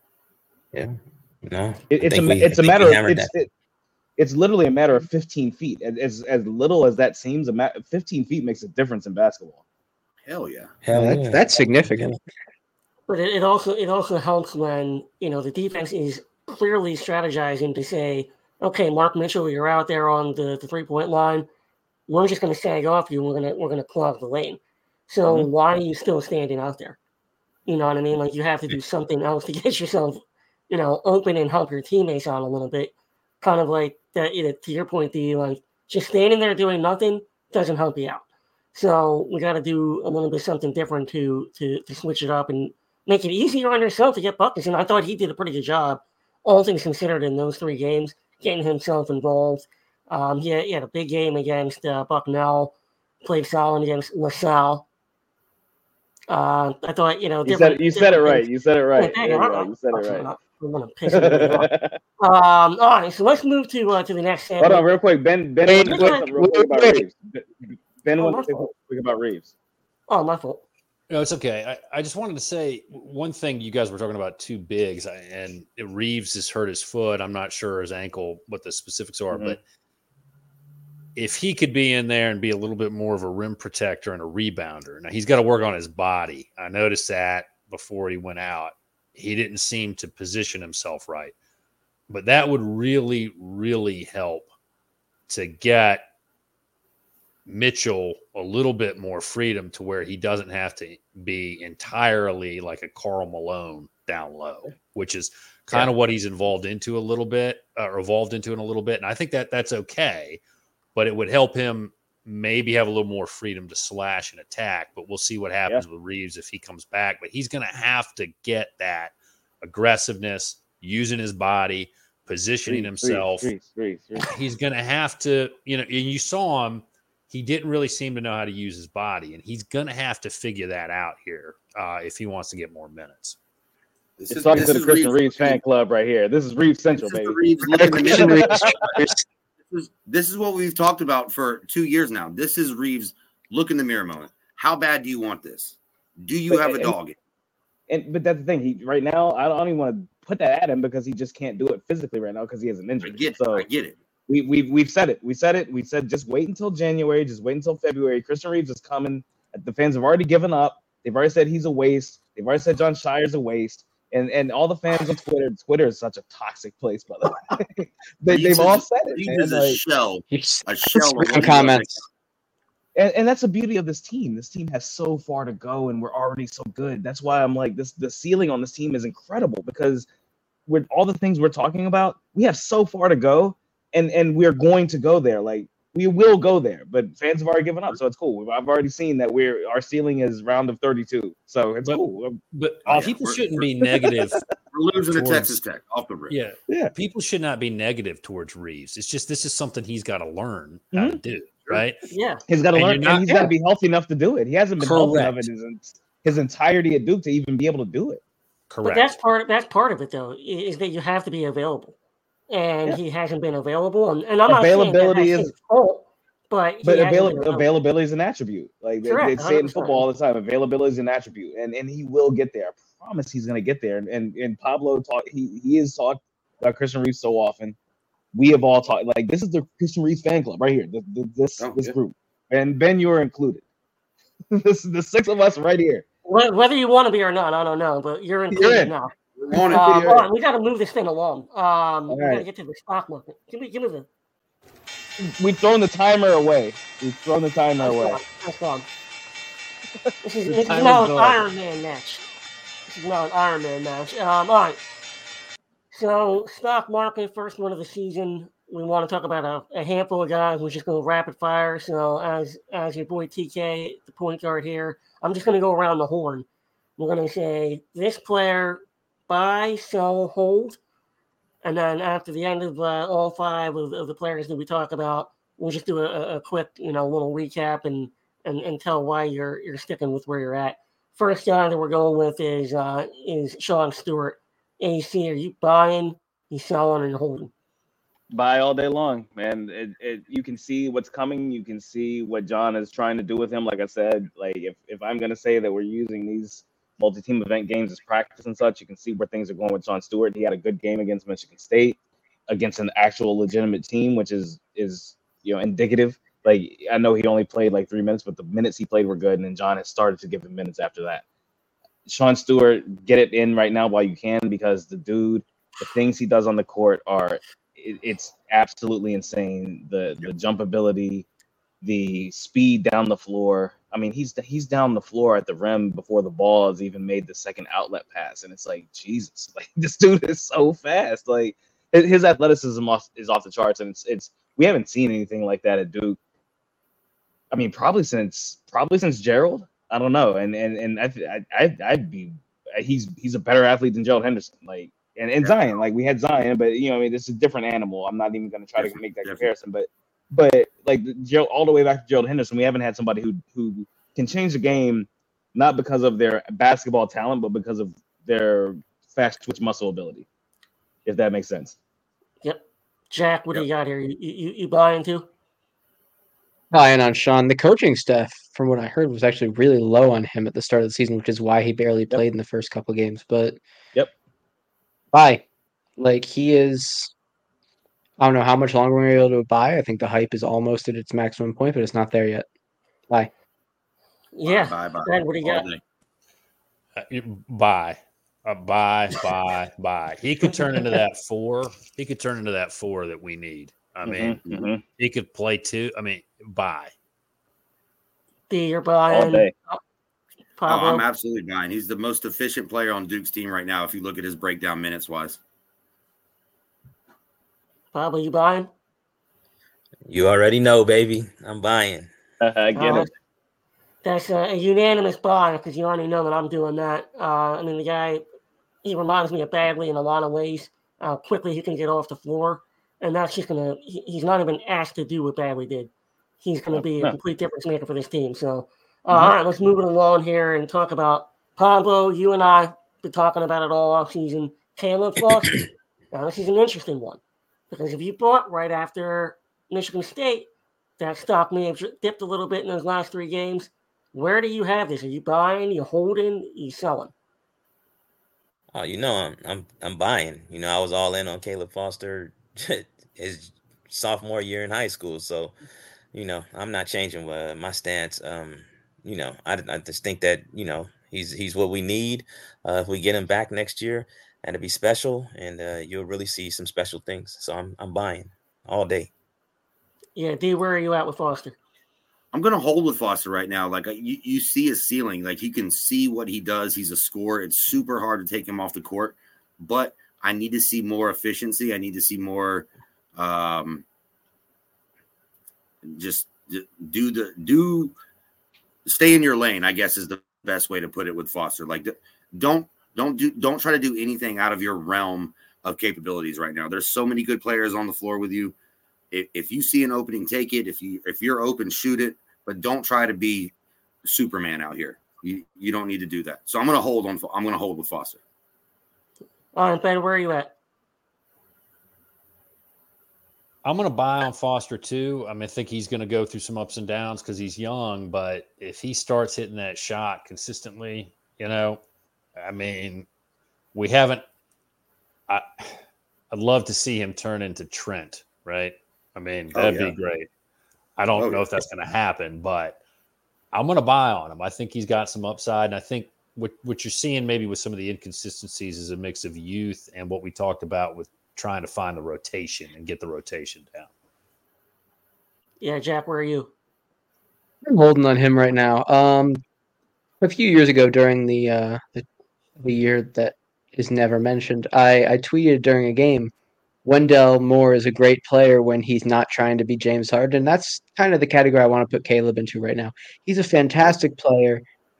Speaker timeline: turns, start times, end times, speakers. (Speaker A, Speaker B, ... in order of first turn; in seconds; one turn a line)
Speaker A: 0.7-3.3
Speaker B: 1.9-3.5
Speaker B: 4.2-9.6
Speaker C: 10.3-10.7
Speaker A: 10.8-12.1
Speaker D: 10.9-12.2
Speaker E: 13.1-21.5
Speaker E: 22.1-27.0
Speaker E: 27.7-38.2
Speaker E: 38.7-54.9
Speaker E: 56.3-58.5
Speaker B: 57.5-60.3
Speaker E: 59.0-64.9
Speaker B: 61.1-62.0
Speaker B: 64.6-69.5
Speaker D: 65.7-67.0
Speaker E: 65.8-66.3
Speaker E: 68.2-68.7
Speaker E: 70.1-70.6
Speaker F: 71.1-79.6
Speaker B: 79.3-79.6
Speaker F: 81.2-91.3
Speaker F: 92.1-94.5
Speaker F: 95.3-96.0
Speaker F: 97.5-110.4
Speaker F: 111.0-123.5
Speaker B: 122.7-124.3
Speaker F: 124.2-133.4
Speaker C: 134.2-135.6
Speaker B: 134.3-138.9
Speaker C: 137.0-138.9
Speaker D: 137.6-139.2
Speaker C: 139.7-147.2
Speaker B: 146.5-146.9
Speaker B: 147.9-153.7
Speaker C: 153.0-154.0
Speaker B: 154.3-169.8
Speaker C: 168.3-172.1
Speaker D: 170.3-171.9
Speaker B: 173.0-180.1
Speaker B: 180.7-192.4
Speaker F: 191.8-194.5
Speaker C: 192.9-193.6
Speaker B: 193.9-194.4
Speaker C: 194.7-196.3
Speaker F: 195.1-195.6
Speaker F: 196.3-202.0
Speaker B: 200.9-201.8
Speaker E: 202.1-202.4
Speaker B: 202.5-208.2
Speaker F: 202.7-203.5
Speaker F: 204.8-205.5
Speaker F: 208.7-209.2
Speaker E: 208.8-211.9
Speaker E: 212.5-217.7
Speaker B: 214.5-215.5
Speaker B: 216.8-227.8
Speaker E: 219.1-220.1
Speaker B: 228.3-233.6
Speaker C: 231.6-231.9
Speaker B: 234.5-236.1
Speaker E: 236.3-239.1
Speaker B: 238.5-238.9
Speaker C: 239.4-240.2
Speaker B: 239.7-240.2
Speaker E: 239.7-244.1
Speaker B: 242.1-242.4
Speaker B: 245.2-248.2
Speaker E: 247.8-248.9
Speaker E: 250.2-252.2
Speaker B: 250.5-251.2
Speaker F: 250.7-251.4
Speaker E: 252.9-254.8
Speaker E: 255.9-266.5
Speaker E: 267.0-270.8
Speaker E: 271.6-287.5
Speaker B: 288.3-302.0
Speaker B: 302.5-311.2
Speaker B: 312.1-321.3
Speaker B: 321.8-336.2
Speaker B: 337.5-360.3
Speaker C: 348.8-349.5
Speaker B: 361.1-361.8
Speaker E: 362.4-365.3
Speaker D: 366.7-373.6
Speaker D: 375.1-375.4
Speaker D: 376.0-377.1
Speaker D: 378.2-382.5
Speaker E: 384.3-385.7
Speaker C: 384.4-385.8
Speaker F: 387.0-394.4
Speaker B: 394.1-394.8
Speaker F: 395.0-396.9
Speaker E: 398.5-399.8
Speaker B: 399.1-399.5
Speaker E: 400.6-401.1
Speaker C: 400.7-405.4
Speaker E: 407.9-408.7
Speaker A: 410.1-412.1
Speaker B: 412.4-413.1
Speaker E: 412.7-413.1
Speaker E: 414.0-418.2
Speaker E: 418.8-437.2
Speaker B: 426.7-427.2
Speaker E: 437.7-440.5
Speaker E: 441.0-447.1
Speaker A: 448.7-455.5
Speaker A: 456.1-469.1
Speaker E: 470.2-471.6
Speaker C: 472.3-483.9
Speaker C: 485.8-487.9
Speaker C: 488.9-498.6
Speaker C: 499.1-503.5
Speaker C: 504.0-508.2
Speaker E: 509.5-510.5
Speaker F: 513.6-521.8
Speaker F: 522.4-523.1
Speaker F: 523.7-524.2
Speaker F: 525.3-525.8
Speaker F: 526.3-530.3
Speaker C: 529.5-529.9
Speaker F: 531.0-532.8
Speaker C: 531.1-531.5
Speaker F: 533.5-543.9
Speaker E: 545.6-546.5
Speaker D: 547.6-549.4
Speaker D: 550.2-552.0
Speaker D: 552.6-556.3
Speaker D: 556.9-564.6